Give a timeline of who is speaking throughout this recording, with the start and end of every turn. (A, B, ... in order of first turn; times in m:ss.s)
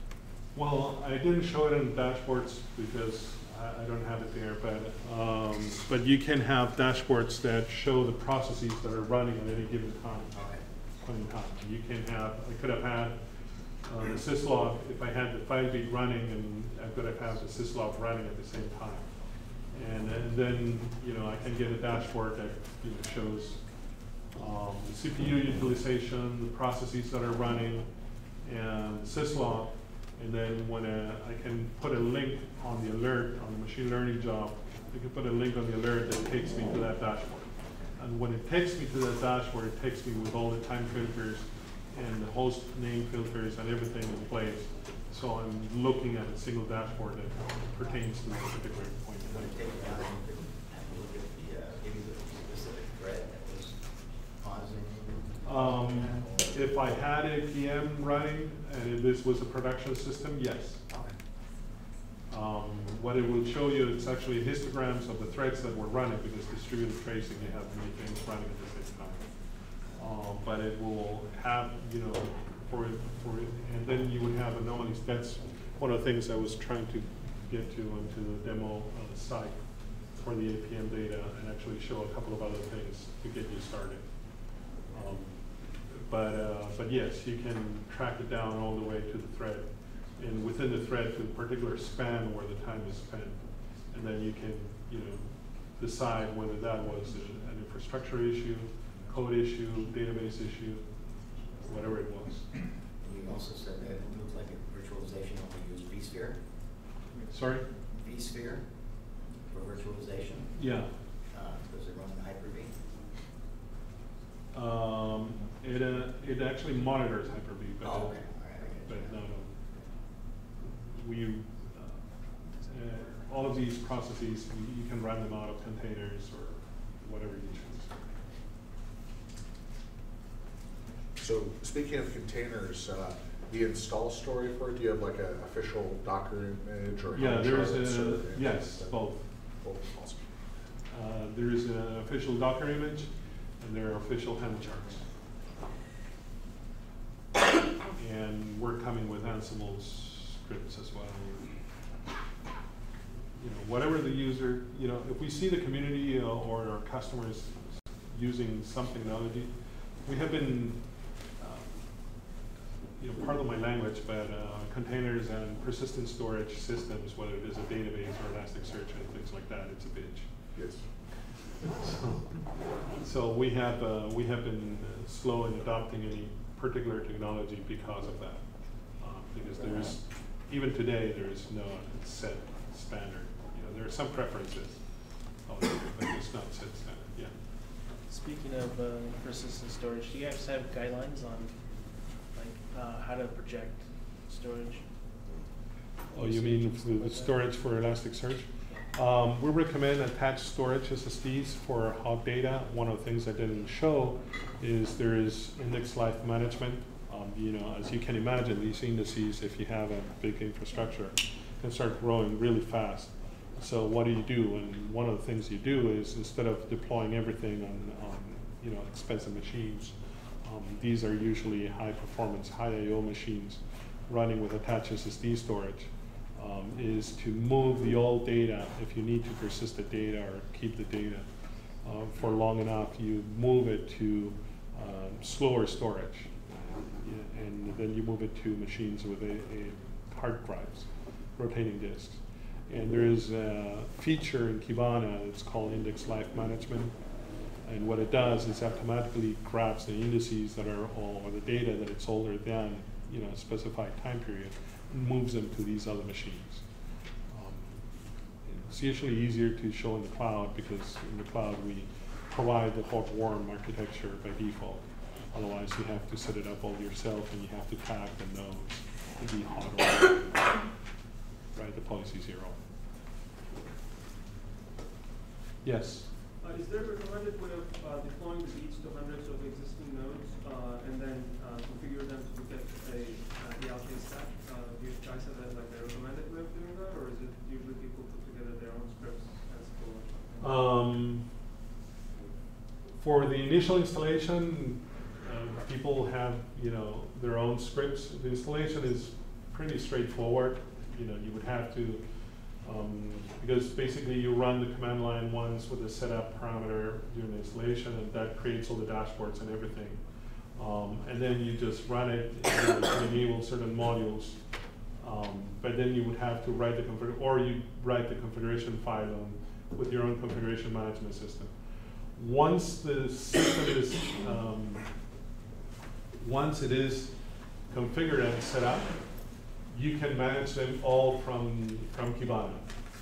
0:00.5-0:10.4 A
0:10.3-0:10.6 B
0:11.0-0:13.2 A
0:13.8-0:49.6 A
0:49.3-0:56.7 B
0:55.4-1:00.8 A
1:00.9-1:01.2 B
1:02.3-1:09.4 A
1:09.9-1:40.9 A
1:41.5-1:42.6 A
1:42.9-1:46.7 B
1:47.3-1:47.7 A
1:47.9-1:50.6 B
1:50.6-1:50.9 A
1:51.3-1:52.8 B
1:54.5-1:59.6 A
1:57.8-1:59.2 B
2:00.6-2:02.0 A
2:02.6-2:08.0 A
2:11.2-2:19.1 C
2:17.1-2:19.3 A
2:19.6-2:20.4 C
2:20.9-2:25.0 A
2:27.9-2:31.5 A
2:33.4-2:42.3 A
2:43.0-2:50.5 A
2:50.6-2:50.9 C
2:51.6-3:07.4 A
3:08.1-3:15.0 D
3:16.1-3:17.4 D
3:16.1-3:51.3 A
3:51.8-4:07.0 A
4:07.6-4:16.6 A
4:17.3-4:17.8 A
4:18.5-4:30.7 A
4:31.5-4:32.6 A
4:35.6-4:36.1 A
4:36.4-4:50.6 E
4:50.4-4:51.3 A
4:53.0-5:02.1 A
5:02.6-5:10.0 A
5:10.6-5:14.4 A
5:15.0-5:21.5 A
5:22.2-5:24.9 A
5:26.2-5:32.7 A